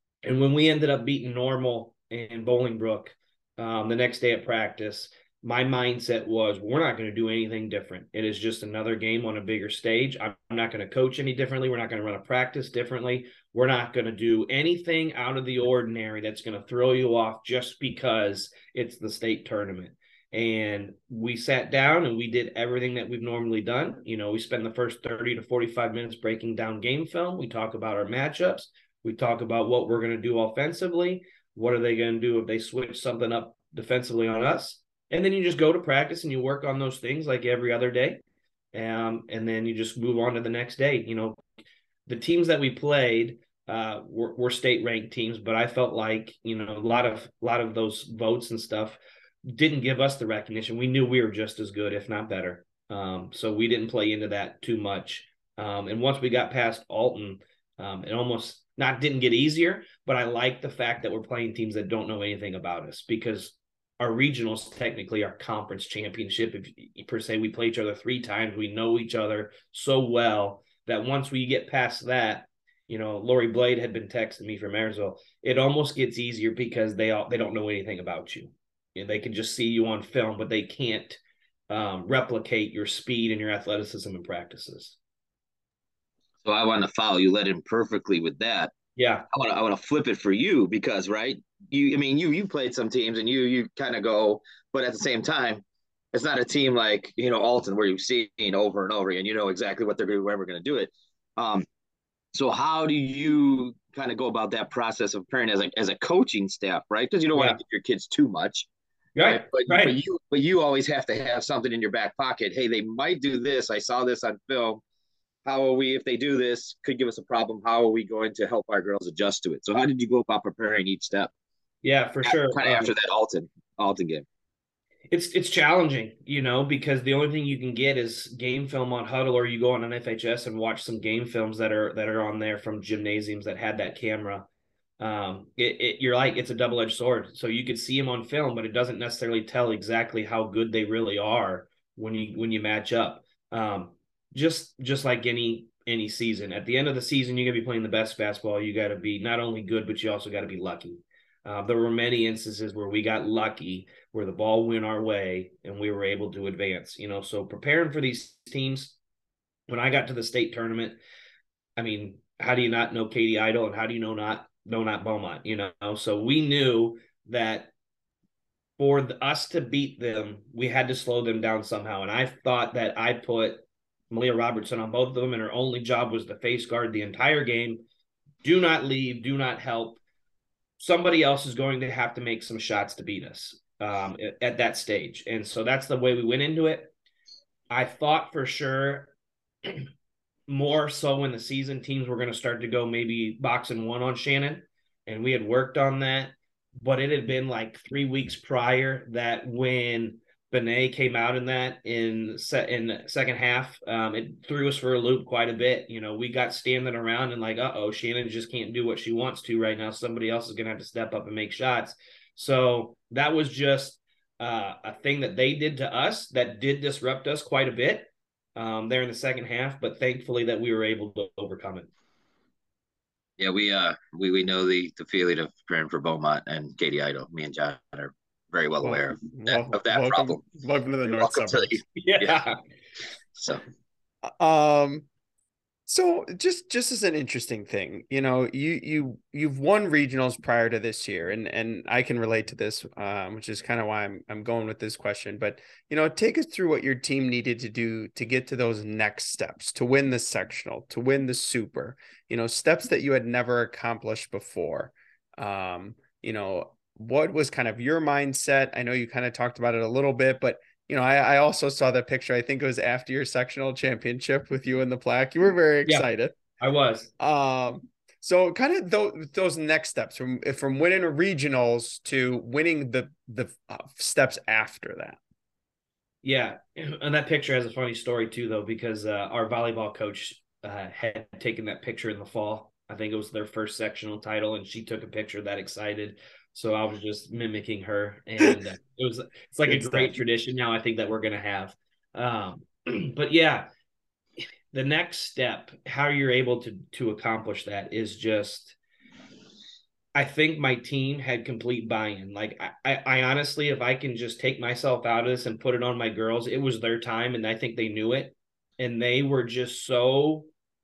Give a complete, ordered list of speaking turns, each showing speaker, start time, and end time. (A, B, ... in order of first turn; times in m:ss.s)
0:00.2-0:38.2 A
0:38.7-0:41.4 A
0:42.1-1:25.0 A
1:26.4-1:28.7 B
1:29.0-1:29.2 A
1:29.3-1:41.6 B
1:42.3-1:48.7 B
1:47.3-1:47.6 A
1:49.2-1:49.9 A
1:49.2-1:54.8 B
1:55.4-2:01.3 B
2:01.8-2:02.9 A
2:02.2-2:04.2 B
2:05.1-2:14.5 A
2:15.0-2:39.0 A
2:39.7-2:41.0 A
2:41.8-2:47.7 A
2:48.8-2:57.8 A
2:58.4-3:00.0 A
3:00.8-3:06.9 A
3:07.7-3:09.1 A
3:10.5-3:41.9 A
3:43.4-3:50.4 B
3:48.8-3:51.8 C
3:51.1-3:52.4 B
3:52.0-3:52.6 A
3:54.3-3:55.0 C
3:55.9-4:26.3 C
4:26.6-4:27.1 A
4:27.2-4:35.2 C
4:36.2-4:53.6 A
4:49.7-4:50.2 C
4:54.7-4:58.8 A
5:00.1-5:10.5 A